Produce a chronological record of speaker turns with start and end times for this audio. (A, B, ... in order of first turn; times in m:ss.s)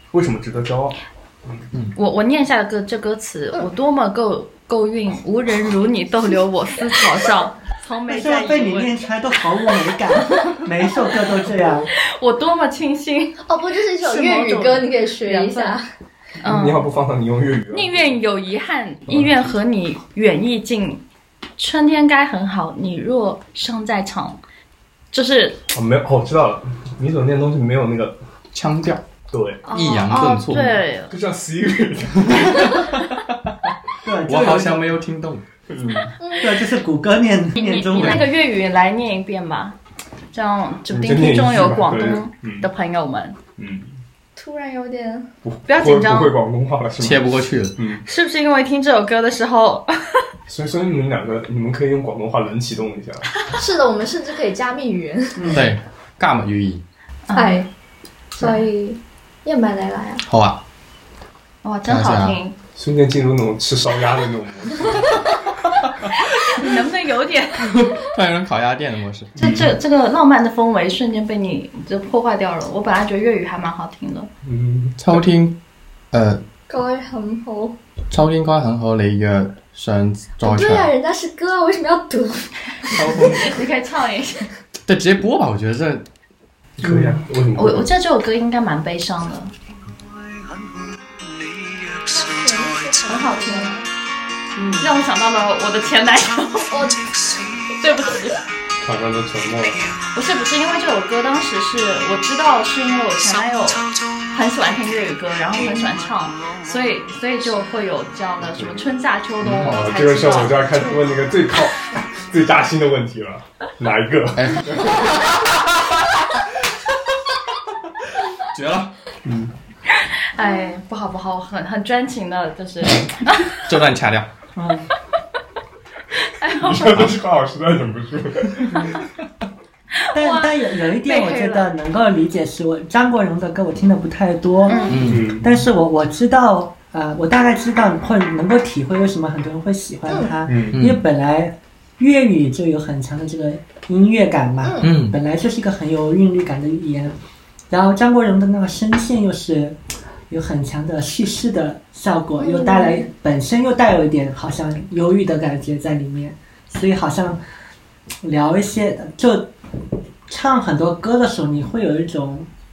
0:00.1-0:01.6 A
0:02.0-0:08.9 B
0:08.1-0:11.9 C
0:10.2-0:10.6 B
0:12.0-0:13.4 B
0:13.4-0:15.8 D
0:14.0-0:15.8 B
0:16.4-0:16.9 B
0:16.4-0:18.0 A
0:17.7-0:21.0 B
0:19.1-0:19.5 A
0:21.6-0:24.4 B
0:25.1-0:25.6 B
0:25.7-0:28.2 A
0:28.5-0:29.0 E
0:29.3-0:29.6 A
0:29.6-0:31.1 B
0:29.7-0:30.8 E
0:31.1-0:33.0 A
0:34.0-0:34.9 C
0:34.2-0:35.4 E
0:35.7-0:36.1 A
0:36.2-0:36.6 D
0:36.4-0:38.2 C
0:37.6-0:39.8 B
0:40.3-0:43.4 B
0:40.9-0:42.7 A
0:43.6-0:44.0 A
0:44.4-0:45.3 D
0:45.4-0:48.0 A
0:45.7-0:46.4 B
0:47.0-0:47.8 E
0:48.0-0:50.2 B
0:50.5-0:53.3 A
0:53.5-0:55.6 D
0:55.4-0:55.7 C
0:55.5-0:56.8 E
0:57.3-0:57.6 B
0:57.3-0:57.7 D
0:58.4-1:00.2 D
1:00.2-1:00.6 E
1:01.6-1:02.5 B
1:01.9-1:02.4 E
1:02.7-1:05.4 A
1:06.2-1:07.7 B
1:07.6-1:09.4 E
1:09.4-1:09.8 A
1:09.4-1:14.3 B
1:14.4-1:15.0 A
1:15.0-1:15.5 E
1:16.1-1:16.4 E
1:16.7-1:17.8 D
1:18.1-1:20.9 E
1:20.4-1:23.2 D
1:22.9-1:23.6 E
1:22.9-1:24.5 B
1:24.8-1:26.0 E
1:26.8-1:27.9 A
1:26.8-1:27.2 C
1:27.5-1:29.5 B
1:32.1-1:33.9 D
1:33.0-1:33.8 B
1:34.6-1:34.9 C
1:34.8-1:36.9 B
1:36.7-1:37.4 D
1:37.8-1:38.4 B
1:38.8-1:39.9 A
1:40.1-1:51.0 B
1:48.5-1:48.8 A
1:49.4-1:49.9 E
1:49.5-1:55.2 A
1:54.3-1:55.2 E
1:58.5-1:58.9 E
1:59.2-1:59.5 A
1:59.9-2:03.6 B
2:00.4-2:00.7 D
2:03.6-2:04.3 E
2:04.6-2:04.9 C
2:06.2-2:07.1 B
2:06.6-2:09.0 A
2:10.0-2:11.7 B
2:10.1-2:27.1 C
2:14.7-2:15.0 B
2:14.9-2:15.4 E
2:15.0-2:15.4 A
2:20.5-2:20.8 A
2:20.7-2:21.0 E
2:24.6-2:24.9 D
2:24.8-2:25.2 E
2:27.7-2:29.8 C
2:30.3-2:37.4 C
2:32.4-2:33.0 D
2:38.2-2:39.5 C
2:40.3-2:42.5 C